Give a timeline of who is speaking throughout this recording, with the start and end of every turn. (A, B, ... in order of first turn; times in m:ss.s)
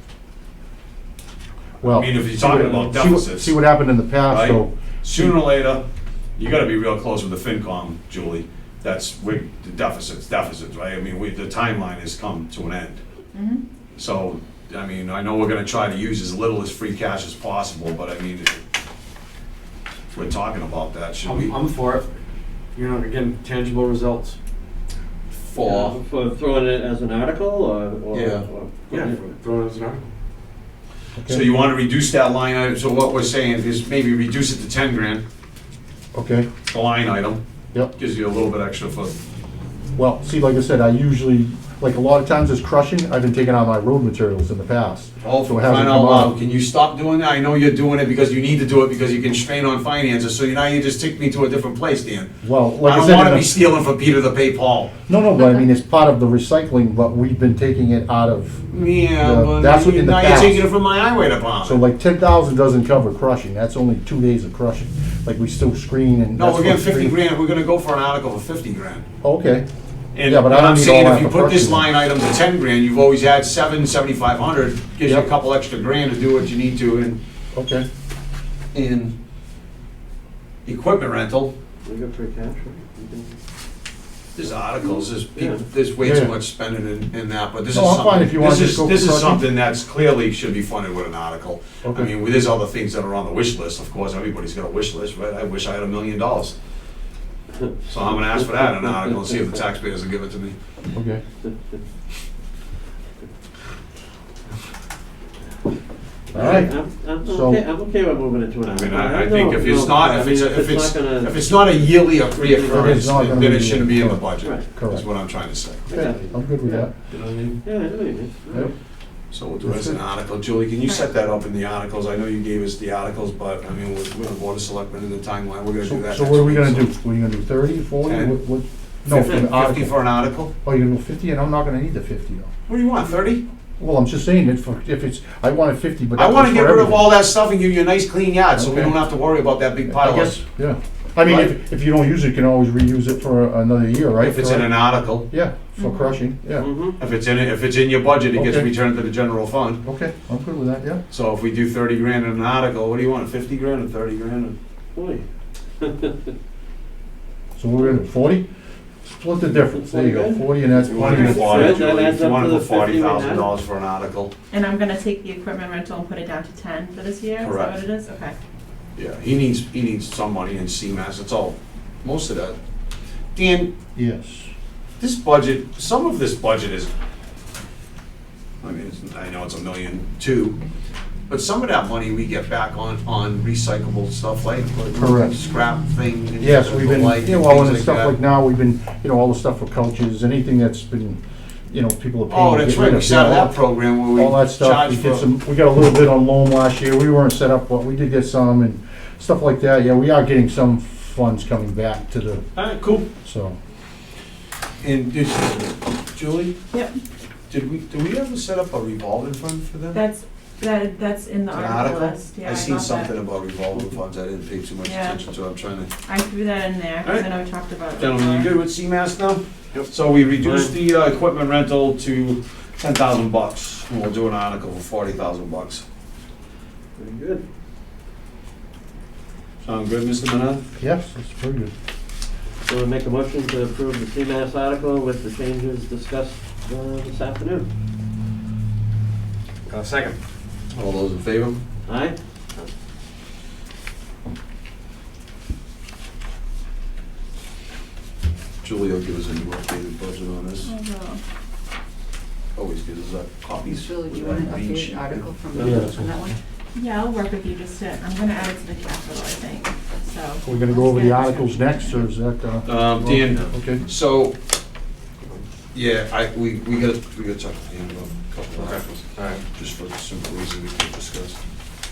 0:01.8-0:03.6 A
0:01.8-0:05.3 B
0:04.3-0:05.8 A
0:06.4-0:13.0 A
0:13.3-0:13.6 C
0:14.0-0:18.6 A
0:20.1-0:21.6 A
0:21.2-0:22.1 D
0:22.8-0:24.4 D
0:25.4-0:26.0 A
0:25.6-0:29.4 E
0:28.1-0:28.5 A
0:28.9-0:30.1 D
0:31.2-0:31.4 B
0:31.3-0:35.2 A
0:36.1-0:36.5 B
0:36.7-0:37.4 A
0:37.9-0:39.2 A
0:40.0-0:46.4 B
0:45.2-0:52.3 A
0:52.4-0:53.6 B
0:52.8-0:54.9 A
0:55.1-1:00.7 B
0:58.7-1:01.8 A
1:01.6-1:07.2 B
1:06.4-1:09.0 A
1:09.2-1:09.7 B
1:10.1-1:17.2 A
1:10.3-1:11.9 B
1:17.6-1:17.9 B
1:18.7-1:19.2 A
1:20.7-1:21.5 A
1:21.8-1:23.4 E
1:24.4-1:36.6 A
1:26.0-1:26.3 B
1:27.7-1:29.5 B
1:31.8-1:32.1 B
1:37.9-1:40.6 A
1:38.5-1:39.1 E
1:40.9-1:41.2 B
1:46.3-1:47.6 B
1:46.3-1:53.1 E
1:48.7-1:55.9 A
1:52.6-1:55.1 B
1:55.9-1:56.9 B
1:55.9-1:56.9 E
1:57.1-1:57.6 D
1:57.6-1:58.7 E
1:59.3-2:06.9 A
1:59.6-2:00.0 B
2:05.8-2:10.0 B
2:08.0-2:08.4 A
2:09.1-2:10.5 A
2:10.6-2:12.5 B
2:12.7-2:13.4 A
2:13.8-2:17.1 B
2:16.2-2:20.4 A
2:18.6-2:19.0 B
2:19.9-2:26.7 B
2:21.2-2:21.5 A
2:24.2-2:25.3 A
2:25.8-2:26.2 C
2:26.6-2:27.0 E
2:27.0-2:29.8 A
2:28.3-2:28.7 B
2:29.8-2:31.0 B
2:31.1-2:34.6 A
2:35.0-2:35.2 E
2:35.8-2:36.2 E
2:37.6-2:38.4 B
2:39.1-2:41.8 B
2:39.5-2:43.5 E
2:41.0-2:44.3 A
2:41.1-2:41.5 C
2:44.5-2:48.4 C
2:47.4-2:47.8 A
2:49.0-2:52.6 A
2:53.4-2:53.7 A
2:54.0-2:54.5 B
2:55.0-2:56.9 A
2:58.6-3:00.6 A
3:01.3-3:08.1 A
3:05.0-3:05.4 B
3:06.4-3:22.5 B
3:12.3-3:15.3 A
3:22.6-3:23.1 A
3:23.2-3:23.6 B
3:24.8-3:26.5 A
3:27.5-3:30.0 A
3:29.9-3:33.1 C
3:31.5-3:35.9 A
3:34.8-3:35.2 C
3:36.0-3:38.5 C
3:37.0-3:37.3 A
3:38.0-3:45.8 A
3:40.4-3:40.8 E
3:47.0-3:47.4 E
3:49.6-3:50.6 A
3:50.8-3:51.7 B
3:52.7-3:57.7 E
3:59.7-4:00.2 D
4:00.7-4:01.6 A
4:01.9-4:02.7 E
4:08.6-4:10.7 A
4:10.6-4:11.2 C
4:12.6-4:15.2 A
4:13.7-4:16.4 F
4:15.6-4:15.8 E
4:15.6-4:16.4 B
4:16.8-4:22.0 C
4:20.4-4:23.8 B
4:22.6-4:24.3 A
4:25.7-4:29.0 A
4:28.6-4:29.4 D
4:29.5-4:31.4 A